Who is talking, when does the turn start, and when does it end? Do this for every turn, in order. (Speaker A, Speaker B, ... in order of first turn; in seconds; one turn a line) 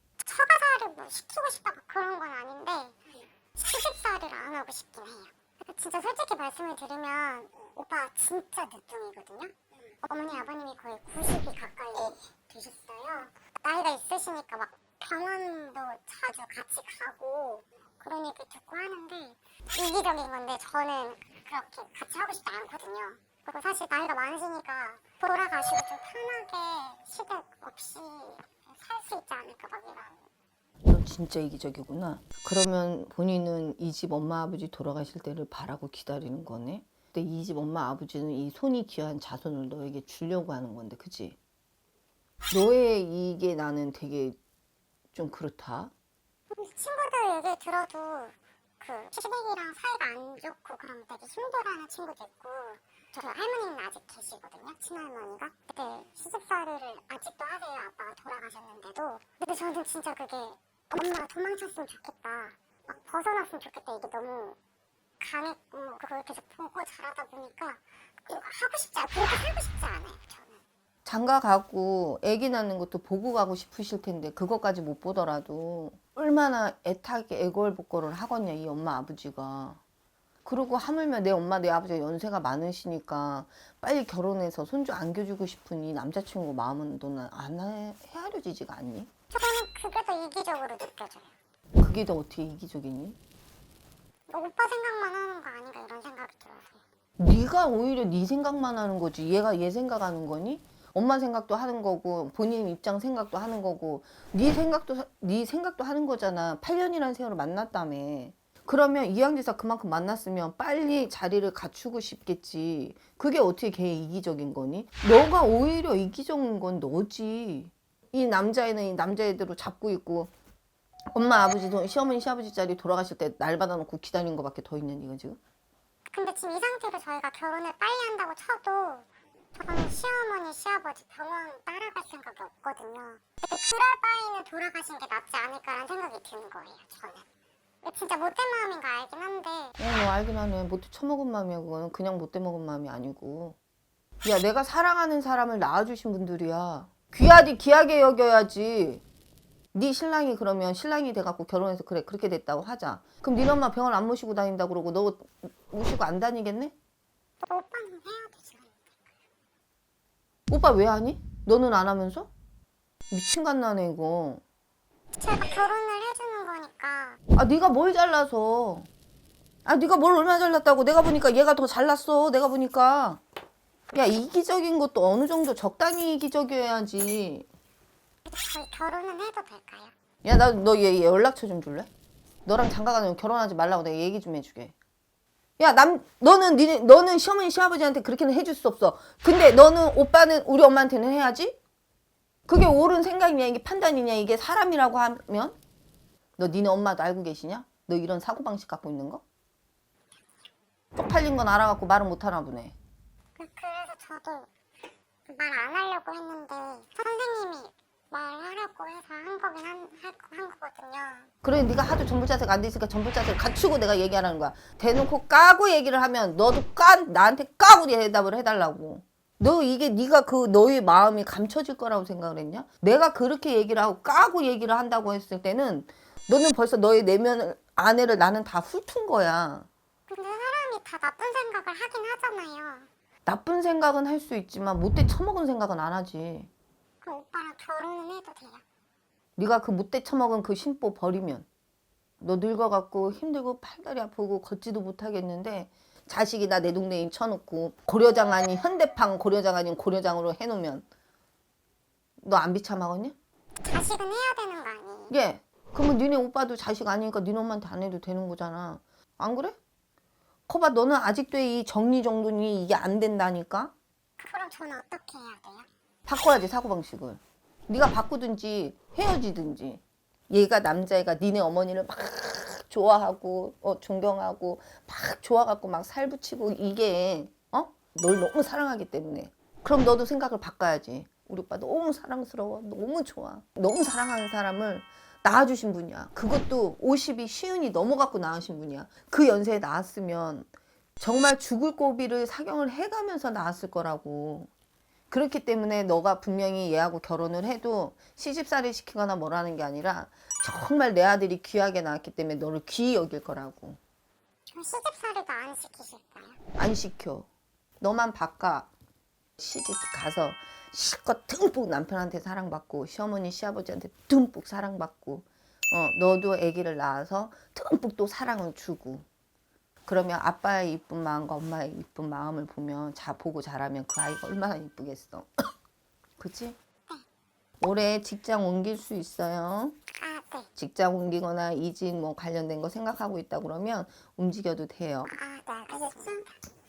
Speaker A: 0.2-30.2
Speaker B: 30.9-41.4
Speaker B: 42.5-44.4
Speaker B: 45.1-45.9
Speaker A: 46.5-64.6
Speaker A: 65.2-70.6
Speaker B: 71.0-79.8
Speaker B: 80.4-89.1
Speaker A: 89.3-91.3
Speaker B: 91.8-93.2
Speaker A: 94.3-96.8
Speaker B: 97.2-120.3
Speaker B: 121.1-125.4
Speaker A: 126.1-137.2
Speaker A: 137.8-139.8
Speaker B: 139.8-143.6
Speaker B: 144.2-149.0
Speaker B: 149.7-156.7
Speaker A: 157.4-159.1
Speaker B: 160.5-162.3
Speaker B: 163.1-164.4
Speaker A: 165.2-167.2
Speaker B: 167.3-168.9
Speaker B: 169.6-173.2
Speaker B: 173.9-177.5
Speaker A: 178.2-179.9
Speaker B: 180.2-181.9
Speaker B: 182.4-184.7
Speaker B: 185.6-191.6
Speaker B: 192.5-195.6
Speaker B: 196.4-199.2
Speaker B: 200.9-202.8
Speaker A: 203.3-204.5
Speaker A: 205.3-211.3
Speaker B: 211.4-229.7
Speaker A: 230.1-232.9
Speaker B: 233.2-236.5
Speaker A: 237.0-238.6
Speaker B: 239.4-241.5
Speaker B: 242.2-250.8
Speaker B: 252.2-253.2
Speaker A: 253.6-255.1
Speaker B: 255.1-259.6
Speaker B: 260.5-263.7
Speaker A: 264.2-265.7
Speaker B: 266.1-294.5
Speaker B: 295.1-303.8
Speaker A: 304.5-306.4
Speaker B: 306.6-307.3
Speaker B: 307.8-308.7
Speaker B: 309.4-319.1
Speaker B: 319.8-325.4
Speaker B: 326.2-326.6
Speaker B: 327.6-329.8
Speaker A: 329.9-330.5
Speaker B: 330.6-335.1
Speaker A: 335.1-336.3